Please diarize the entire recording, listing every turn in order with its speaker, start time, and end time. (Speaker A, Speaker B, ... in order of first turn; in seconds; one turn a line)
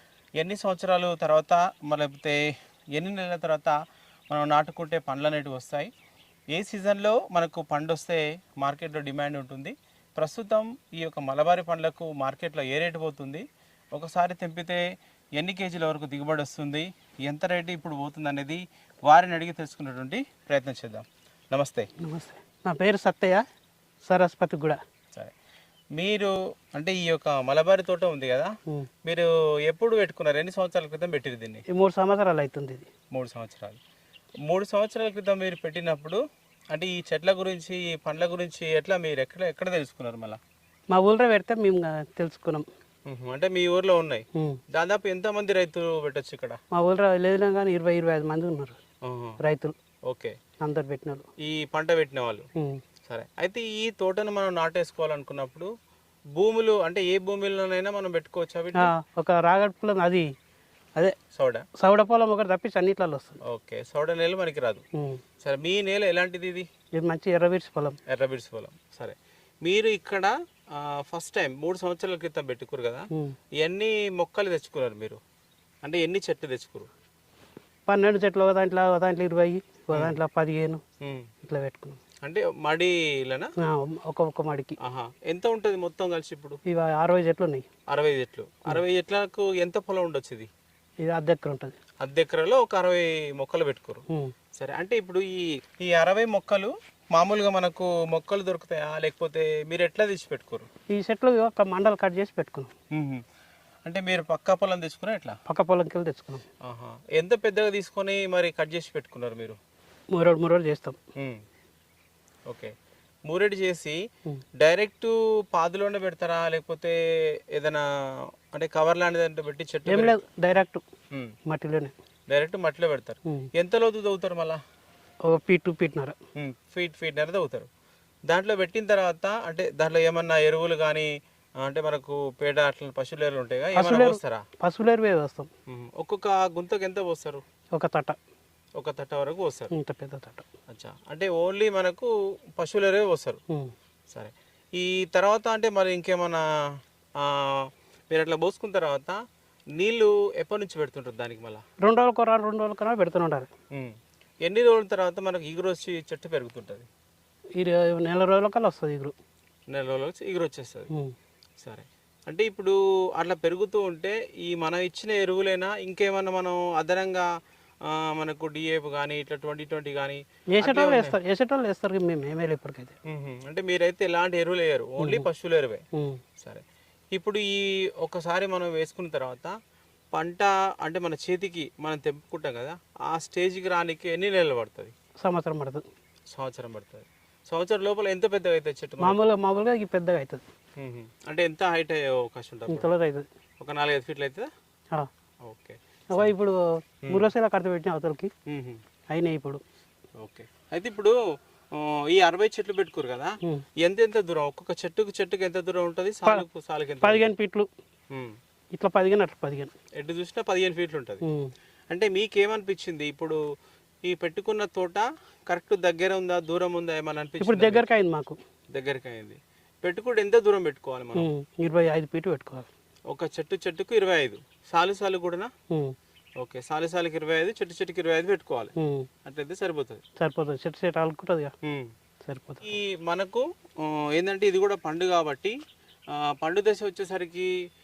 Speaker A: 0.4-3.8
Speaker A: 4.3-5.9
Speaker A: 6.5-14.8
Speaker A: 15.3-21.9
Speaker B: 22.0-23.4
Speaker B: 24.0-24.8
Speaker A: 25.9-28.5
Speaker A: 29.0-31.6
Speaker B: 31.7-32.9
Speaker A: 33.1-33.8
Speaker A: 34.5-36.2
Speaker A: 36.7-40.4
Speaker B: 40.9-42.6
Speaker A: 43.0-46.6
Speaker B: 46.7-48.8
Speaker A: 49.0-49.4
Speaker B: 49.4-49.7
Speaker A: 50.1-50.4
Speaker B: 50.6-51.2
Speaker A: 51.4-52.5
Speaker A: 53.1-55.7
Speaker A: 56.4-58.9
Speaker B: 58.8-60.3
Speaker A: 61.3-61.6
Speaker B: 61.8-63.4
Speaker A: 63.5-64.8
Speaker B: 65.0-65.2
Speaker A: 65.4-66.7
Speaker B: 67.0-68.0
Speaker A: 68.0-73.1
Speaker A: 73.6-75.2
Speaker A: 75.8-76.9
Speaker B: 77.9-80.8
Speaker A: 81.0-81.3
Speaker B: 81.4-82.0
Speaker A: 82.2-83.5
Speaker B: 83.6-84.8
Speaker A: 84.8-86.6
Speaker B: 86.7-87.7
Speaker A: 87.9-90.5
Speaker B: 91.0-91.7
Speaker A: 92.0-94.0
Speaker A: 94.5-100.7
Speaker B: 100.9-102.7
Speaker A: 102.9-103.2
Speaker A: 103.8-105.4
Speaker B: 105.5-106.4
Speaker A: 106.6-109.6
Speaker B: 110.1-111.0
Speaker A: 111.1-111.4
Speaker A: 112.5-112.7
Speaker A: 113.2-114.0
Speaker A: 114.6-117.0
Speaker A: 117.5-120.2
Speaker B: 119.9-120.8
Speaker B: 121.5-121.9
Speaker A: 122.3-124.6
Speaker B: 125.3-126.2
Speaker A: 126.3-127.7
Speaker A: 128.3-131.1
Speaker A: 131.6-134.4
Speaker B: 133.8-135.5
Speaker A: 135.7-137.4
Speaker B: 137.7-138.2
Speaker A: 138.8-139.7
Speaker B: 139.7-140.4
Speaker A: 140.7-143.4
Speaker A: 144.1-146.4
Speaker A: 147.2-149.2
Speaker A: 149.7-151.6
Speaker B: 151.8-153.5
Speaker A: 153.7-156.8
Speaker B: 157.6-159.1
Speaker A: 159.7-160.9
Speaker A: 161.6-167.3
Speaker A: 167.8-171.2
Speaker B: 170.5-172.9
Speaker A: 173.1-175.8
Speaker B: 175.0-175.2
Speaker B: 175.9-176.2
Speaker A: 176.4-179.5
Speaker A: 180.1-184.9
Speaker B: 185.2-185.8
Speaker A: 186.3-189.2
Speaker B: 189.0-190.4
Speaker A: 190.8-192.9
Speaker B: 192.7-193.2
Speaker A: 193.6-194.5
Speaker A: 195.4-196.3
Speaker B: 196.1-198.3
Speaker A: 198.5-198.8
Speaker B: 199.1-199.6
Speaker A: 200.2-201.2
Speaker A: 201.7-207.3
Speaker B: 207.0-207.7
Speaker A: 208.1-208.3
Speaker B: 208.8-209.7
Speaker A: 210.0-211.2
Speaker B: 211.2-211.5
Speaker A: 211.9-213.4
Speaker A: 214.0-217.8
Speaker B: 217.4-218.4
Speaker A: 218.7-221.3
Speaker B: 221.2-222.7
Speaker A: 223.1-225.5
Speaker A: 226.4-228.7
Speaker B: 228.8-229.1
Speaker A: 229.2-230.0
Speaker B: 230.2-231.5
Speaker A: 231.6-231.9
Speaker B: 232.2-232.7
Speaker A: 232.6-235.6
Speaker A: 236.1-237.5